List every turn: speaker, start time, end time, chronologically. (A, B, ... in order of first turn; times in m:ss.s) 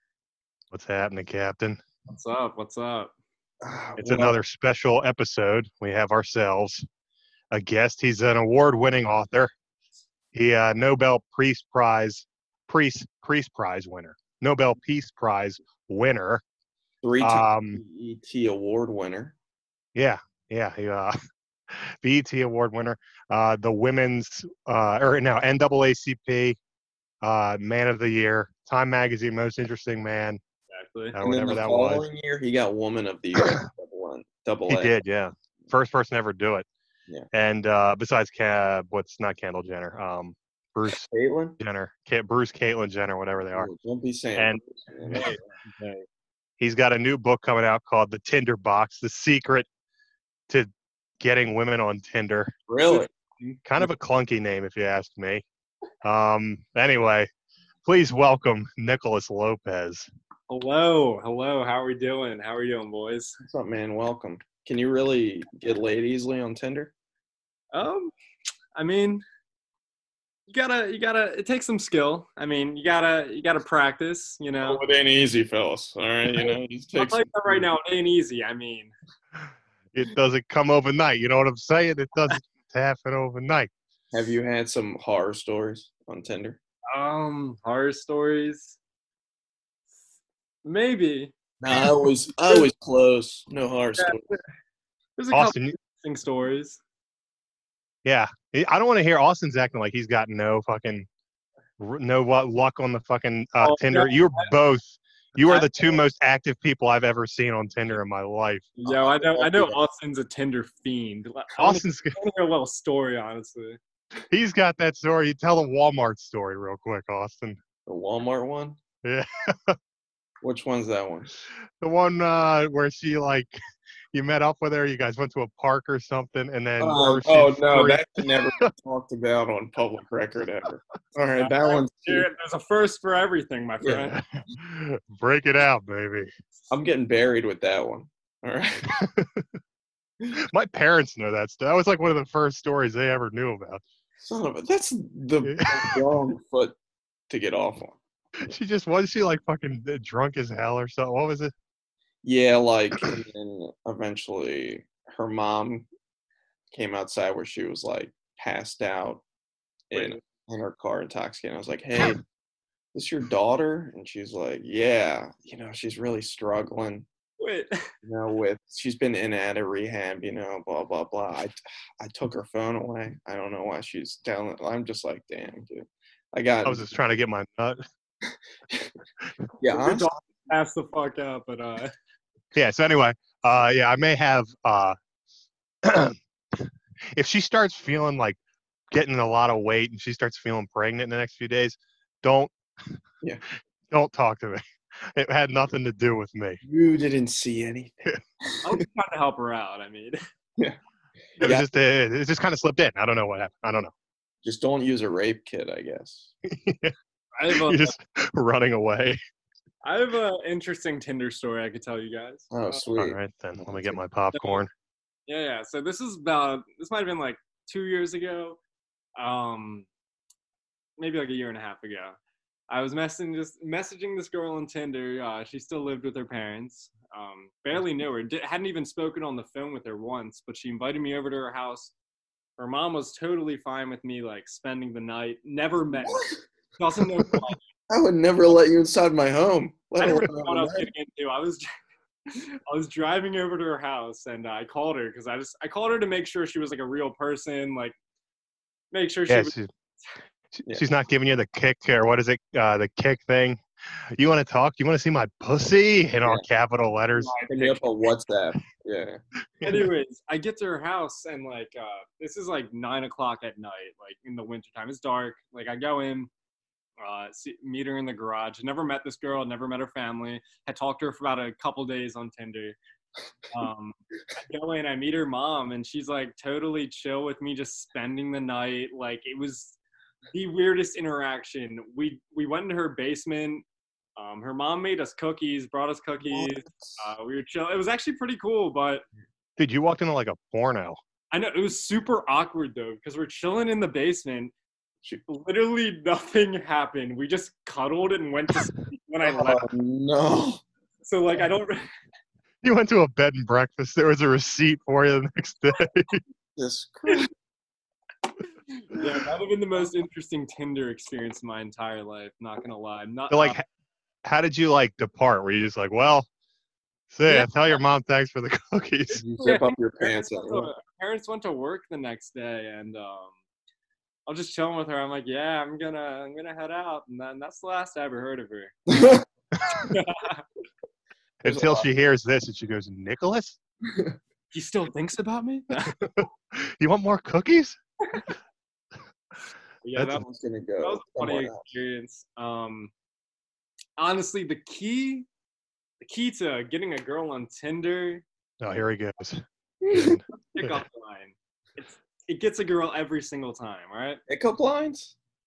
0:00.7-0:01.8 A
0:02.1-0:03.1 B
0:03.6-0:04.4 C
0:04.0-0:06.8 A
0:07.5-0:09.5 A
0:10.3-0:16.4 A
0:17.0-0:19.3 C
0:17.2-0:17.8 A
0:19.9-0:21.2 A
0:21.7-0:26.6 A
0:27.2-0:30.4 A
0:30.7-0:31.2 B
0:31.1-0:32.0 A
0:31.2-0:34.9 C
0:34.7-0:36.7 A
0:37.3-0:41.0 A
0:40.9-0:41.6 C
0:41.6-0:43.7 A
0:43.5-0:45.4 C
0:44.4-0:45.3 A
0:45.1-0:46.0 B
0:46.6-0:49.7 A
0:51.2-0:52.5 A
0:52.7-0:53.1 C
0:52.8-0:53.6 B
0:53.6-0:55.4 A
0:56.0-0:57.3 A
0:57.8-1:00.1 A
1:00.5-1:03.4 B
1:03.4-1:06.9 C
1:07.7-1:08.1 B
1:08.8-1:09.2 B
1:10.5-1:14.8 B
1:14.6-1:17.7 C
1:16.3-1:18.9 B
1:19.9-1:23.7 A
1:24.1-1:26.6 C
1:26.9-1:28.8 B
1:30.6-1:32.7 B
1:31.6-1:34.3 C
1:34.0-1:34.4 B
1:35.2-1:36.8 B
1:35.3-1:35.7 A
1:38.0-1:41.1 A
1:41.8-1:48.7 A
1:43.6-1:44.5 B
1:45.4-1:46.0 B
1:48.8-1:53.8 B
1:48.8-1:49.8 C
1:51.6-1:52.2 A
1:54.3-1:57.6 A
1:57.8-1:58.8 C
1:59.0-1:59.8 A
2:00.4-2:01.3 C
2:01.8-2:03.6 A
2:04.1-2:08.6 A
2:06.8-2:12.3 C
2:11.4-2:14.1 B
2:13.9-2:16.3 A
2:16.7-2:18.9 C
2:18.9-2:19.5 A
2:20.3-2:23.8 A
2:24.2-2:26.7 C
2:25.4-2:26.0 A
2:27.3-2:28.0 C
2:28.4-2:31.5 A
2:32.2-2:35.8 C
2:36.7-2:39.2 C
2:39.9-2:42.2 C
2:42.9-2:47.1 C
2:47.4-2:47.8 B
2:48.0-2:56.8 C
2:56.6-2:57.8 A
2:59.6-3:00.2 C
2:59.7-3:01.9 B
3:02.5-3:05.0 A
3:05.8-3:08.4 A
3:08.9-3:12.5 A
3:13.9-3:16.6 A
3:16.6-3:18.7 C
3:18.6-3:20.2 B
3:21.4-3:21.6 C
3:21.4-3:23.9 A
3:24.4-3:26.3 C
3:26.4-3:26.9 A
3:27.4-3:27.9 B
3:27.5-3:29.2 A
3:29.8-3:32.8 B
3:32.5-3:34.0 C
3:33.0-3:34.7 A
3:35.3-3:38.6 B
3:39.2-3:39.9 B
3:41.0-3:42.2 B
3:42.7-3:51.9 B
3:52.6-3:57.6 B
3:56.0-3:56.4 C
3:57.9-4:00.9 C
4:00.0-4:01.6 B
4:02.3-4:07.9 B
4:08.9-4:09.5 B
4:09.3-4:09.7 A
4:10.6-4:13.6 A
4:14.1-4:17.3 A
4:17.2-4:17.8 B
4:17.5-4:19.2 C
4:19.6-4:19.9 A
4:19.6-4:26.3 B
4:27.0-4:32.8 B
4:33.5-4:39.7 B
4:40.3-4:43.6 B
4:44.2-4:49.0 B
4:46.2-4:47.1 C
4:49.6-4:51.0 A
4:51.3-4:54.5 B
4:55.3-4:59.7 B
4:59.2-5:00.6 C
5:01.0-5:01.8 B
5:02.6-5:06.2 A
5:06.6-5:07.3 C
5:08.9-5:13.6 B
5:13.3-5:13.6 A
5:14.2-5:16.3 A
5:17.1-5:19.2 A
5:19.1-5:20.7 C
5:19.4-5:23.4 B
5:24.3-5:28.8 B
5:28.9-5:29.2 C
5:29.6-5:29.9 A
5:29.8-5:30.4 B
5:31.4-5:33.6 A
5:31.4-5:31.9 C
5:34.5-5:36.0 B
5:36.0-5:37.8 A
5:39.8-5:40.2 B
5:40.0-5:40.2 A
5:40.1-5:41.6 C
5:40.8-5:42.9 B
5:44.0-5:45.3 B
5:46.0-5:48.2 B
5:48.6-5:50.8 A
5:49.8-5:50.2 C
5:50.5-5:54.2 B
5:54.3-5:55.1 C